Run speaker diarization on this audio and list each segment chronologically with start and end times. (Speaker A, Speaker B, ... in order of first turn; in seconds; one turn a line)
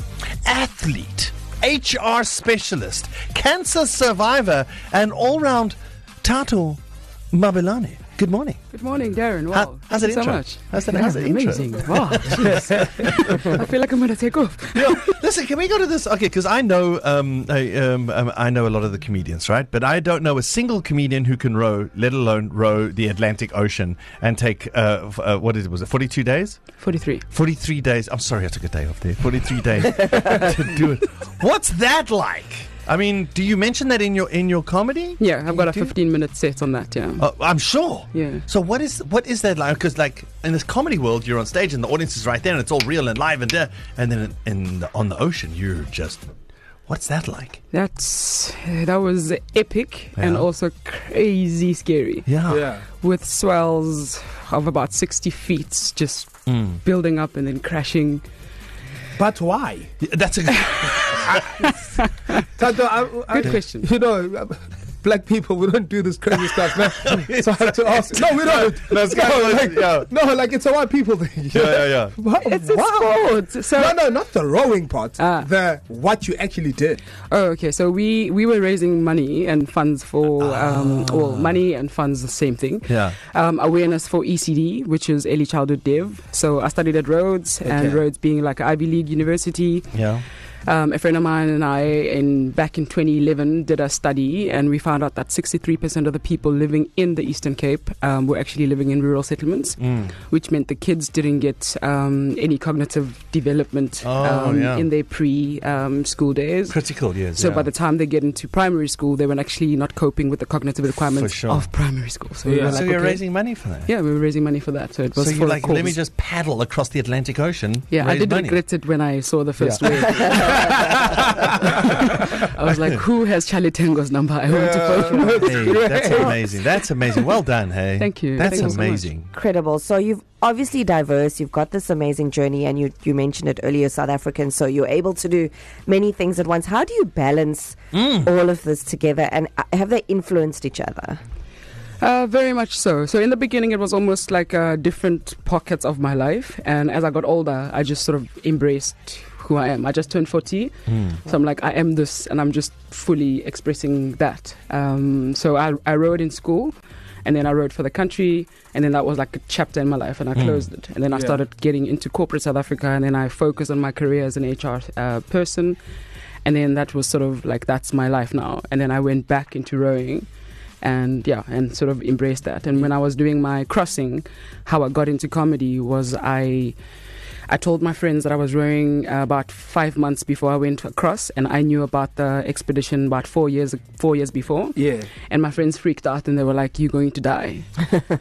Speaker A: 0.4-6.8
Speaker A: 7.3-8.6
Speaker B: 8.7-15.2
Speaker A: 9.5-13.6
Speaker A: 14.7-26.7
Speaker B: 26.8-27.2
Speaker A: 27.3-35.9
Speaker B: 35.2-37.3
Speaker A: 37.2-46.2
Speaker B: 38.1-38.4
Speaker A: 46.9-47.6
Speaker B: 47.7-52.4
Speaker A: 50.2-50.5
Speaker A: 52.2-52.7
Speaker C: 52.5-52.9
Speaker B: 52.9-58.2
Speaker A: 56.5-56.8
Speaker C: 59.2-59.9
Speaker A: 60.0-61.7
Speaker B: 60.5-62.4
Speaker C: 62.6-77.0
Speaker B: 63.3-63.9
Speaker A: 67.0-70.1
Speaker A: 71.5-72.2
Speaker B: 72.4-74.0
Speaker B: 75.2-75.5
Speaker B: 77.2-90.0
Speaker A: 80.5-81.5
Speaker A: 82.9-83.2
Speaker C: 87.6-88.0
Speaker A: 89.9-90.2
Speaker B: 90.7-116.0
Speaker A: 99.8-100.1
Speaker A: 104.0-104.9
Speaker A: 106.7-107.7
Speaker A: 111.2-111.7
Speaker C: 112.4-112.8
Speaker A: 112.6-113.9
Speaker A: 115.1-118.6
Speaker B: 117.9-120.6
Speaker A: 119.6-121.5
Speaker C: 120.3-122.4
Speaker B: 121.8-127.3
Speaker C: 124.5-126.5
Speaker A: 125.4-129.3
Speaker B: 128.0-129.1
Speaker D: 129.3-141.2
Speaker A: 137.9-138.3
Speaker B: 142.0-165.8
Speaker A: 150.9-151.2
Speaker A: 160.3-160.6
Speaker C: 161.1-161.4
Speaker B: 166.4-170.3
Speaker B: 170.8-176.7
Speaker B: 177.5-187.8
Speaker C: 184.8-185.1